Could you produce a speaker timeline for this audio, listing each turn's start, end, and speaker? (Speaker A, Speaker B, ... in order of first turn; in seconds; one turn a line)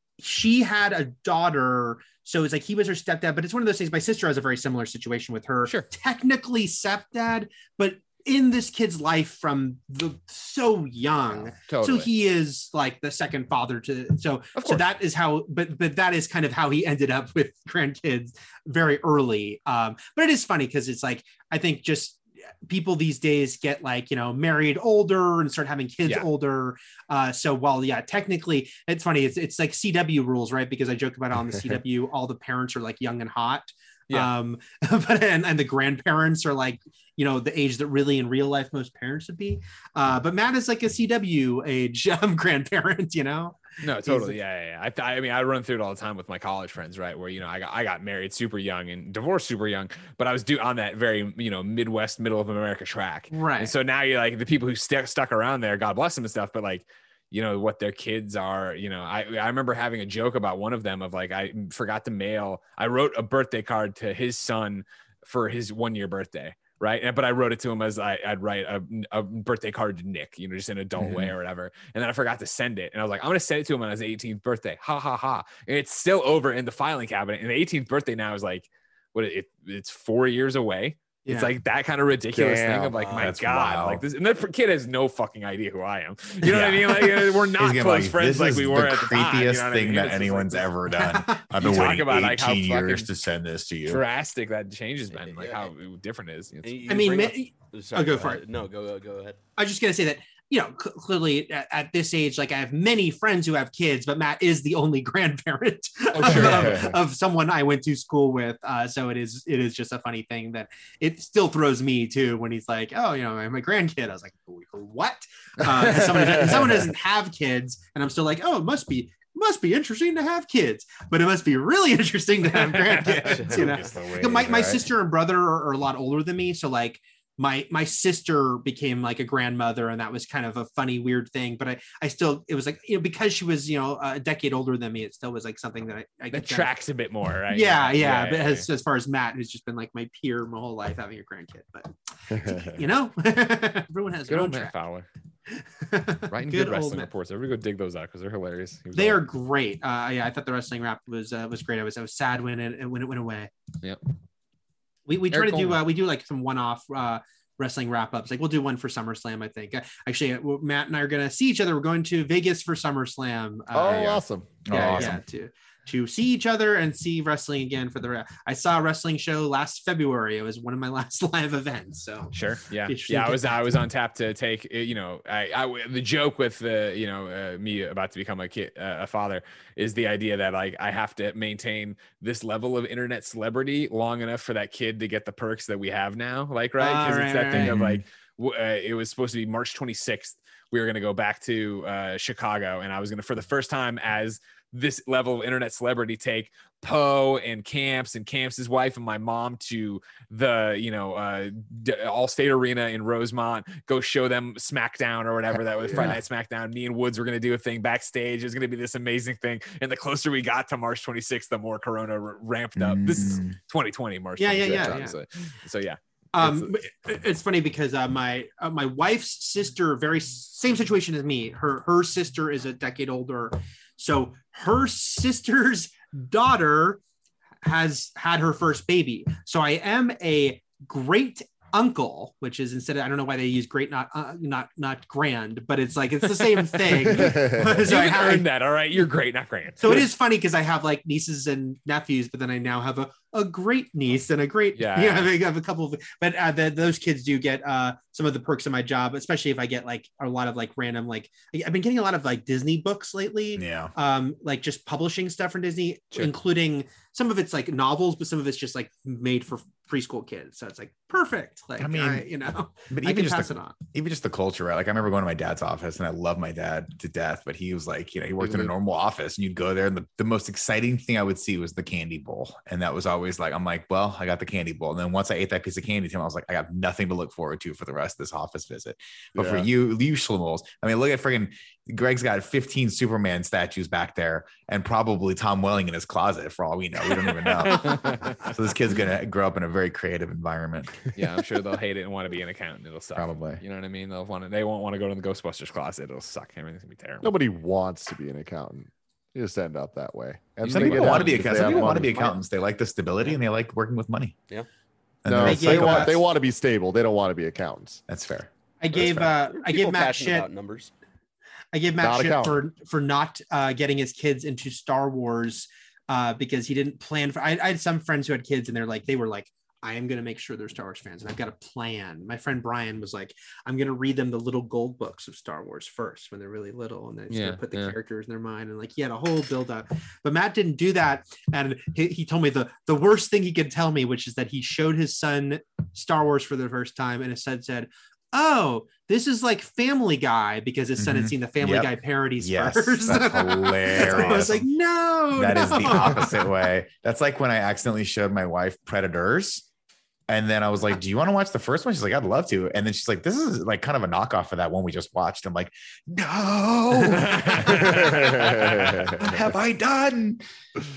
Speaker A: 0.2-44.4
Speaker B: 11.3-12.1
Speaker B: 14.6-14.8
Speaker B: 43.8-90.7
Speaker A: 53.3-53.7
Speaker C: 71.0-71.3
Speaker A: 81.2-81.5
Speaker D: 82.3-83.0
Speaker E: 82.9-83.4
Speaker C: 83.2-84.0
Speaker C: 86.4-94.0
Speaker A: 91.1-91.5
Speaker B: 91.6-93.1
Speaker B: 93.9-96.8
Speaker E: 95.2-95.7
Speaker E: 96.6-99.4
Speaker A: 96.9-98.4
Speaker A: 99.6-136.7
Speaker D: 106.2-107.0
Speaker B: 106.2-106.9
Speaker D: 116.0-116.8
Speaker B: 122.6-123.2
Speaker E: 123.3-123.7
Speaker C: 123.4-124.9
Speaker B: 136.3-138.7
Speaker A: 137.5-144.7
Speaker D: 142.3-142.8
Speaker B: 144.3-145.1
Speaker A: 145.5-147.1
Speaker B: 146.3-149.2
Speaker A: 148.9-153.5
Speaker A: 155.1-172.3
Speaker B: 155.3-155.8
Speaker D: 163.7-165.1
Speaker C: 164.7-165.2
Speaker B: 172.3-216.7
Speaker A: 172.9-173.7
Speaker A: 186.8-187.7
Speaker C: 187.6-188.0
Speaker C: 205.9-206.2
Speaker C: 212.8-213.6
Speaker A: 214.4-215.2
Speaker A: 216.3-227.0
Speaker A: 227.6-238.4
Speaker B: 236.4-240.1
Speaker D: 237.0-237.8
Speaker A: 239.8-263.8
Speaker B: 244.8-245.3
Speaker C: 253.6-253.9
Speaker C: 261.8-262.3
Speaker C: 262.9-291.1
Speaker D: 268.4-268.7
Speaker D: 279.4-279.7
Speaker B: 287.2-288.5
Speaker B: 291.1-297.3
Speaker C: 293.2-293.6
Speaker D: 297.2-302.2
Speaker B: 300.6-301.6
Speaker C: 300.7-304.4
Speaker E: 301.6-302.4
Speaker C: 305.2-306.2
Speaker D: 305.3-308.0
Speaker A: 305.4-306.2
Speaker C: 308.1-309.3
Speaker A: 308.8-310.5
Speaker E: 309.0-310.9
Speaker A: 311.7-346.5
Speaker D: 312.0-312.6
Speaker B: 327.3-327.9
Speaker C: 341.0-344.7
Speaker C: 345.3-349.7
Speaker C: 350.3-360.4
Speaker B: 357.0-359.0
Speaker D: 358.4-359.3